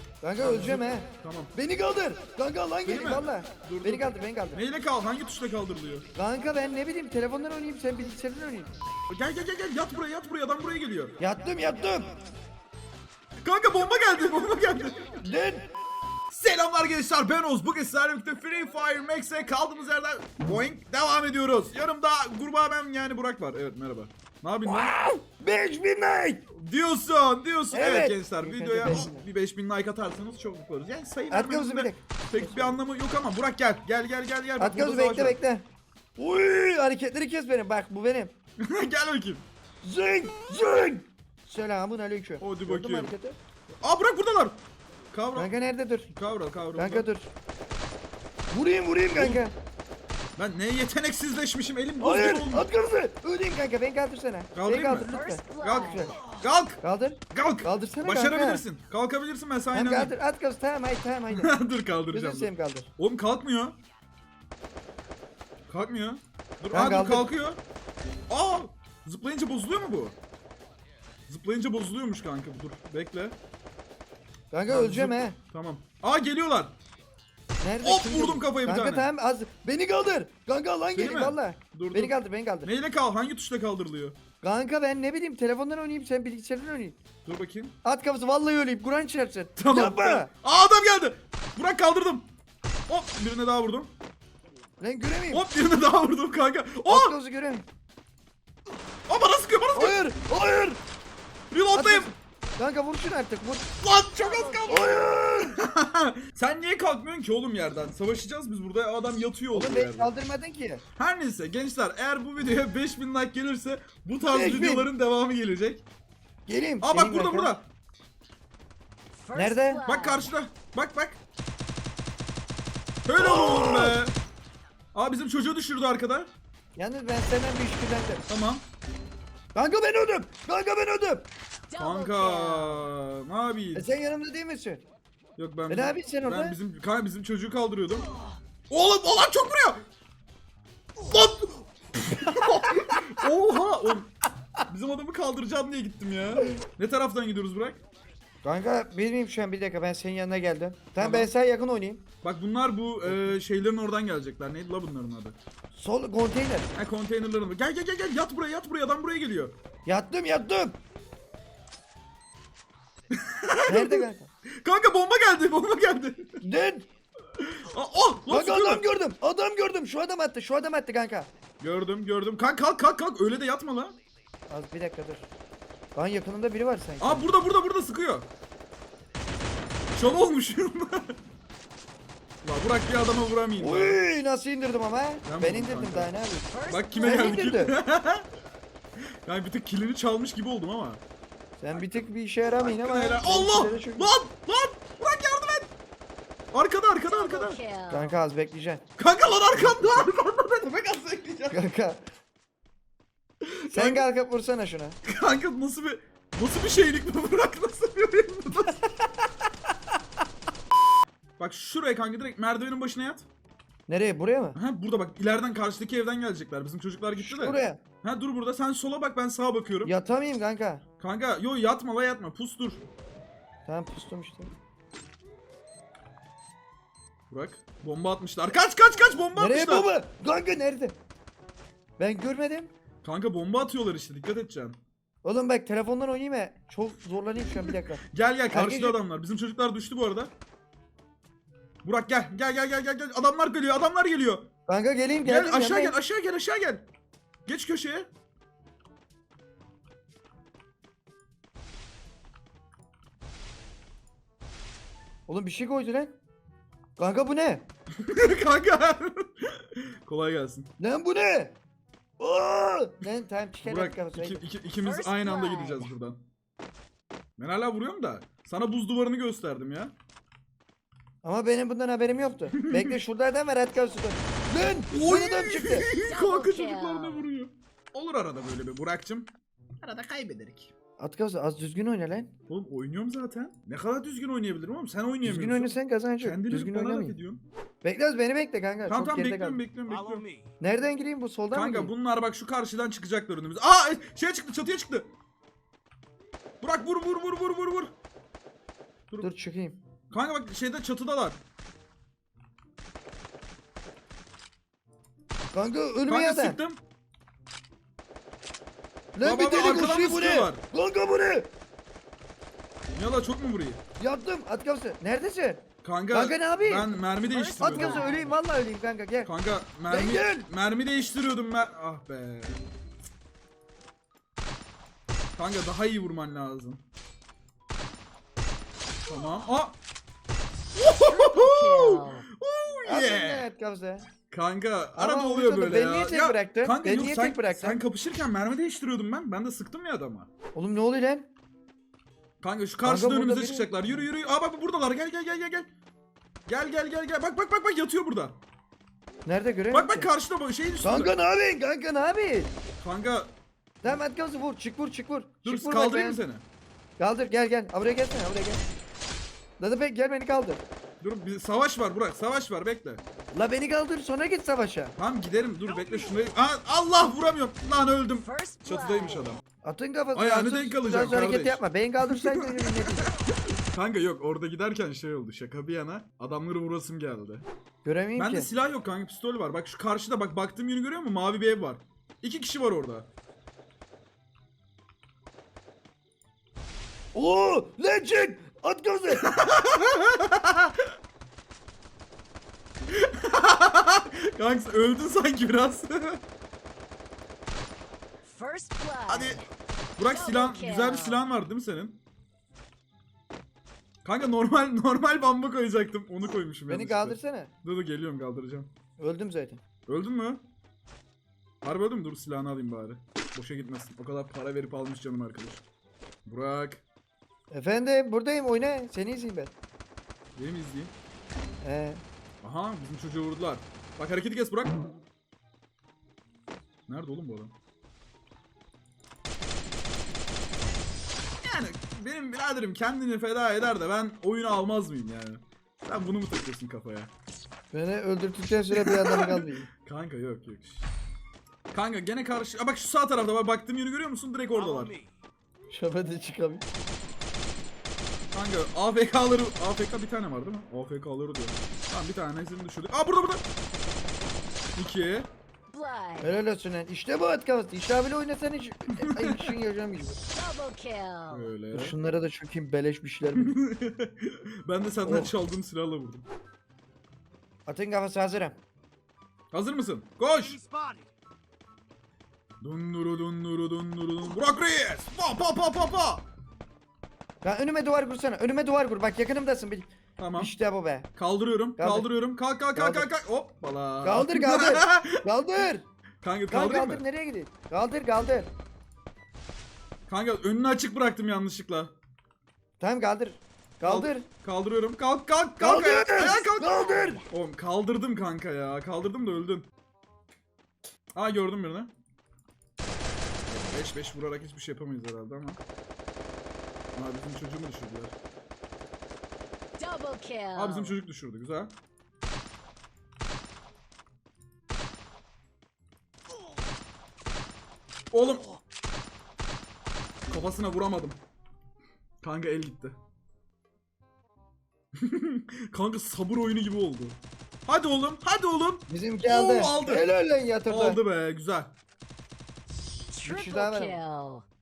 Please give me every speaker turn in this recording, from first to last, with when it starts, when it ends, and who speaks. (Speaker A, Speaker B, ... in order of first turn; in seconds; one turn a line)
Speaker A: 0.2-4.6
Speaker B: 0.4-1.5
Speaker B: 2.9-6.1
Speaker A: 6.2-8.7
Speaker B: 9.1-11.2
Speaker A: 11.2-12.1
Speaker B: 13.4-15.1
Speaker A: 15.2-15.7
Speaker B: 16.3-24.9
Speaker A: 24.6-26.4
Speaker B: 26.5-35.4
Speaker A: 27.7-29.3
Speaker A: 31.3-32.8
Speaker A: 34.6-35.6
Speaker A: 36.2-38.3
Speaker B: 38.6-39.4
Speaker A: 39.8-43.4
Speaker B: 42.4-43.1
Speaker B: 43.8-44.6
Speaker B: 45.1-45.5
Speaker A: 45.4-46.1
Speaker B: 46.1-47.1
Speaker A: 46.8-47.3
Speaker A: 48.5-49.5
Speaker B: 49.1-49.4
Speaker B: 50.4-52.7
Speaker A: 52.0-56.2
Speaker B: 54.5-56.8
Speaker C: 55.0-56.4
Speaker A: 56.8-58.6
Speaker B: 57.3-60.1
Speaker A: 59.7-61.6
Speaker B: 61.3-63.8
Speaker A: 62.1-62.9
Speaker B: 65.7-67.6
Speaker A: 66.7-67.3
Speaker B: 68.3-70.1
Speaker B: 71.3-73.4
Speaker A: 74.5-75.4
Speaker B: 74.7-76.7
Speaker A: 77.6-82.7
Speaker B: 77.8-79.1
Speaker B: 80.9-84.2
Speaker A: 84.4-87.0
Speaker B: 87.2-87.8
Speaker A: 87.8-90.3
Speaker B: 89.6-92.3
Speaker B: 92.9-93.9
Speaker A: 94.8-95.5
Speaker B: 95.3-97.1
Speaker A: 96.9-97.7
Speaker B: 99.1-100.0
Speaker A: 99.7-100.8
Speaker B: 101.5-102.1
Speaker A: 101.7-103.7
Speaker B: 103.8-110.1
Speaker C: 104.2-105.1
Speaker A: 104.7-105.6
Speaker A: 109.5-110.8
Speaker B: 111.0-115.8
Speaker A: 114.3-114.9
Speaker A: 116.5-117.6
Speaker B: 116.8-117.7
Speaker C: 119.2-120.3
Speaker A: 119.3-119.8
Speaker B: 119.8-121.2
Speaker B: 123.1-124.2
Speaker A: 123.2-124.0
Speaker B: 124.9-126.3
Speaker A: 126.8-128.2
Speaker B: 128.3-128.6
Speaker A: 129.6-131.3
Speaker C: 131.7-132.8
Speaker B: 131.8-133.9
Speaker A: 133.8-134.8
Speaker B: 135.4-138.1
Speaker A: 135.7-136.6
Speaker B: 138.7-139.8
Speaker B: 141.0-144.1
Speaker B: 144.7-147.8
Speaker A: 148.4-152.0
Speaker B: 151.0-151.3
Speaker B: 152.2-155.4
Speaker A: 153.1-153.4
Speaker A: 155.7-156.7
Speaker B: 156.8-159.6
Speaker A: 159.9-160.8
Speaker B: 163.1-166.4
Speaker A: 163.7-164.3
Speaker A: 166.4-166.9
Speaker B: 167.4-168.9
Speaker A: 168.3-171.3
Speaker B: 171.6-174.0
Speaker A: 174.5-175.3
Speaker A: 175.9-177.2
Speaker B: 177.0-178.3
Speaker B: 179.9-181.2
Speaker B: 182.4-184.0
Speaker A: 183.6-187.8
Speaker B: 185.3-186.1
Speaker C: 186.5-187.5
Speaker B: 186.7-188.2
Speaker B: 189.2-191.0
Speaker A: 191.6-194.1
Speaker B: 192.6-195.7
Speaker B: 196.5-197.6
Speaker C: 197.1-198.2
Speaker A: 197.9-198.8
Speaker B: 199.0-201.6
Speaker A: 201.5-202.0
Speaker B: 203.4-204.0
Speaker A: 203.7-205.0
Speaker B: 205.0-208.8
Speaker B: 211.4-213.3
Speaker A: 213.9-214.6
Speaker B: 214.6-219.9
Speaker A: 217.2-217.8
Speaker A: 219.8-220.8
Speaker B: 221.0-222.9
Speaker A: 223.7-224.5
Speaker B: 227.3-229.9
Speaker A: 229.3-231.0
Speaker A: 232.0-232.7
Speaker B: 233.0-234.8
Speaker A: 235.2-239.0
Speaker B: 237.7-240.3
Speaker B: 241.8-244.5
Speaker A: 244.7-246.0
Speaker B: 245.2-246.8
Speaker B: 247.5-248.1
Speaker A: 255.3-256.2
Speaker A: 257.0-257.6
Speaker B: 258.0-260.7
Speaker A: 260.8-261.6
Speaker A: 262.2-264.4
Speaker B: 263.6-266.2
Speaker C: 264.8-265.9
Speaker B: 267.4-269.9
Speaker A: 271.2-275.9
Speaker B: 272.5-272.9
Speaker B: 274.9-279.3
Speaker C: 276.0-277.3
Speaker B: 279.8-280.7
Speaker A: 281.0-282.3
Speaker B: 282.5-287.4
Speaker A: 285.2-287.2
Speaker A: 287.8-289.6
Speaker B: 288.9-290.4
Speaker A: 290.6-291.9
Speaker B: 291.5-295.1
Speaker B: 296.6-297.9
Speaker A: 299.2-299.8
Speaker B: 300.1-301.4
Speaker A: 305.5-306.6
Speaker B: 306.1-306.8
Speaker A: 309.1-311.5
Speaker B: 309.2-310.6
Speaker B: 312.9-313.8
Speaker A: 314.0-316.9
Speaker B: 315.8-318.1
Speaker C: 317.2-318.4
Speaker A: 317.6-319.3
Speaker B: 319.2-322.6
Speaker A: 319.9-320.5
Speaker B: 325.4-326.8
Speaker B: 329.1-329.8
Speaker B: 330.8-333.5
Speaker C: 331.0-332.3
Speaker A: 332.9-334.1
Speaker B: 334.3-340.3
Speaker A: 335.0-337.8
Speaker A: 340.6-341.3
Speaker B: 342.4-345.7
Speaker A: 342.8-344.1
Speaker B: 346.5-348.4
Speaker A: 349.2-350.1
Speaker B: 349.7-351.1
Speaker A: 350.8-352.5
Speaker B: 352.8-353.3
Speaker A: 353.8-356.2
Speaker B: 355.4-356.4
Speaker A: 357.0-358.6
Speaker A: 359.6-360.6
Speaker B: 361.0-363.0
Speaker A: 363.3-364.9
Speaker B: 365.0-369.4
Speaker C: 365.9-366.2
Speaker C: 368.2-369.4
Speaker A: 369.6-373.1
Speaker B: 370.1-377.5
Speaker A: 377.8-378.5
Speaker B: 378.2-383.1
Speaker A: 387.1-389.3
Speaker B: 389.2-390.8
Speaker B: 392.9-396.2
Speaker C: 398.2-399.5
Speaker B: 399.1-399.4
Speaker B: 400.0-402.0
Speaker C: 400.1-401.3
Speaker B: 404.0-408.7
Speaker A: 406.7-407.5
Speaker A: 409.0-409.6
Speaker B: 409.9-410.4
Speaker B: 411.6-415.6
Speaker B: 416.3-416.8
Speaker A: 417.5-419.5
Speaker B: 420.4-420.9
Speaker A: 421.6-422.0
Speaker B: 422.4-424.9
Speaker B: 426.9-427.5
Speaker B: 431.4-437.1
Speaker A: 437.7-439.7
Speaker B: 438.7-440.8
Speaker B: 441.7-445.0
Speaker A: 445.7-446.6
Speaker B: 448.3-453.4
Speaker B: 454.8-455.3
Speaker C: 455.7-456.3
Speaker A: 456.2-460.2
Speaker B: 459.0-459.5
Speaker C: 460.3-461.5
Speaker B: 461.3-461.9
Speaker A: 461.7-463.6
Speaker B: 463.4-466.3
Speaker A: 465.0-465.3
Speaker A: 467.7-468.6
Speaker B: 469.5-470.6
Speaker B: 472.6-476.3
Speaker A: 477.4-481.1
Speaker B: 480.2-480.5
Speaker B: 481.1-485.2
Speaker A: 481.8-482.1
Speaker A: 482.7-483.1
Speaker A: 484.0-485.9
Speaker B: 486.2-487.0
Speaker A: 486.5-488.5
Speaker B: 490.1-491.9
Speaker A: 492.8-494.2
Speaker B: 493.8-499.7
Speaker A: 495.6-497.2
Speaker B: 501.1-501.9
Speaker B: 503.5-505.6
Speaker B: 506.9-508.1
Speaker C: 509.8-511.0
Speaker B: 510.6-511.7
Speaker B: 518.1-518.6
Speaker B: 520.3-521.2
Speaker B: 522.2-523.0
Speaker B: 525.0-530.1
Speaker A: 528.9-531.0
Speaker B: 530.7-531.7
Speaker C: 533.1-534.5
Speaker A: 533.2-534.0